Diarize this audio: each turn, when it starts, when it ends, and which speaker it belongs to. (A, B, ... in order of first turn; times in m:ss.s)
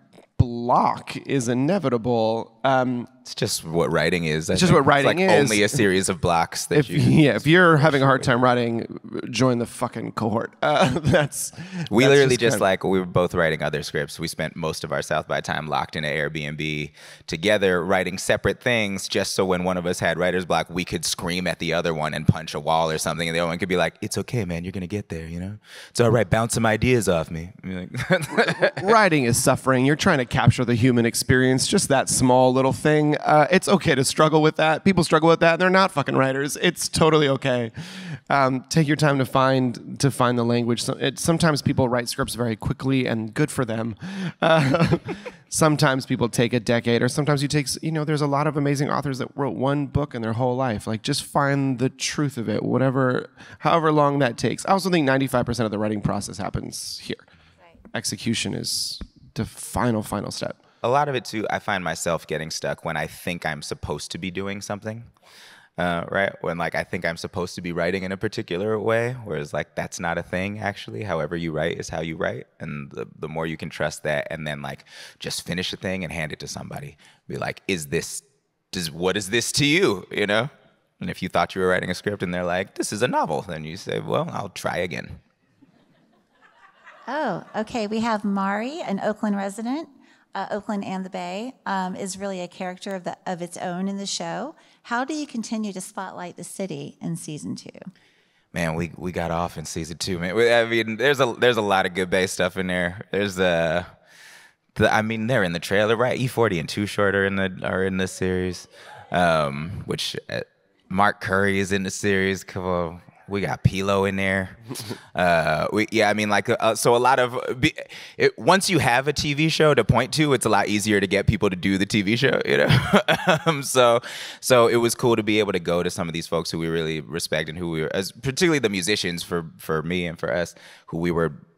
0:00.4-0:03.1 A
0:03.3-0:08.3 B
0:04.5-0:05.9 A
0:06.7-0:12.6 A
0:11.9-0:28.9 B
0:28.4-0:57.3 A
0:57.9-1:00.6 A
1:00.8-1:05.1 B
1:05.8-1:25.2 B
1:27.1-1:37.8 C
1:38.5-1:43.9 B
1:44.8-1:54.6 B
1:55.1-2:11.4 B